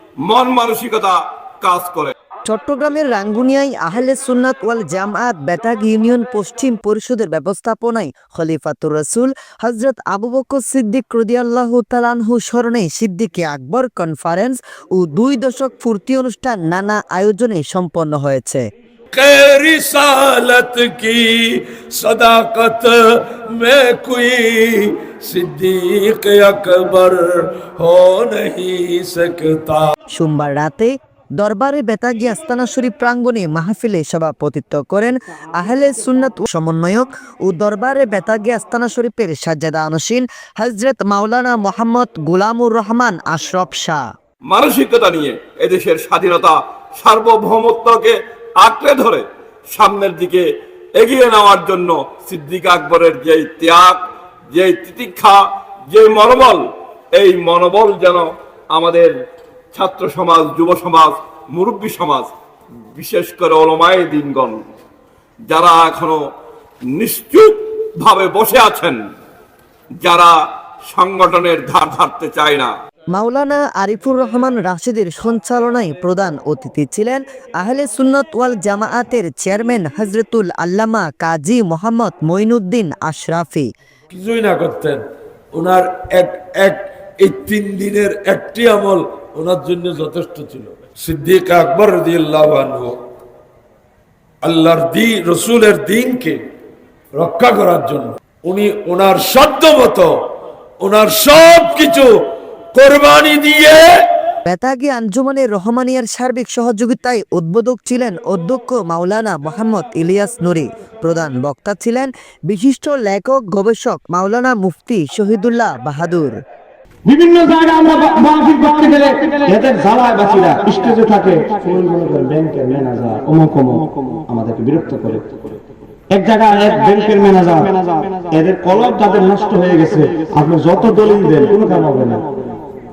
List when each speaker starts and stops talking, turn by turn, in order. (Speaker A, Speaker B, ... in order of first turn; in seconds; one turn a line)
Speaker A: 0.3-2.1
Speaker B: 2.5-18.6
Speaker C: 19.1-29.9
Speaker B: 30.1-44.0
Speaker A: 44.5-50.4
Speaker A: 51.0-54.0
Speaker A: 54.5-56.6
Speaker A: 57.1-59.1
Speaker A: 59.7-62.3
Speaker A: 63.0-64.6
Speaker A: 65.5-66.2
Speaker A: 66.9-69.0
Speaker A: 70.0-70.3
Speaker A: 70.9-72.7
Speaker B: 73.1-83.7
Speaker C: 84.1-85.0
Speaker C: 85.5-93.0
Speaker C: 94.4-96.4
Speaker C: 97.2-100.1
Speaker C: 100.8-102.1
Speaker C: 102.7-104.0
Speaker B: 104.5-116.4
Speaker D: 117.0-125.3
Speaker D: 126.1-132.2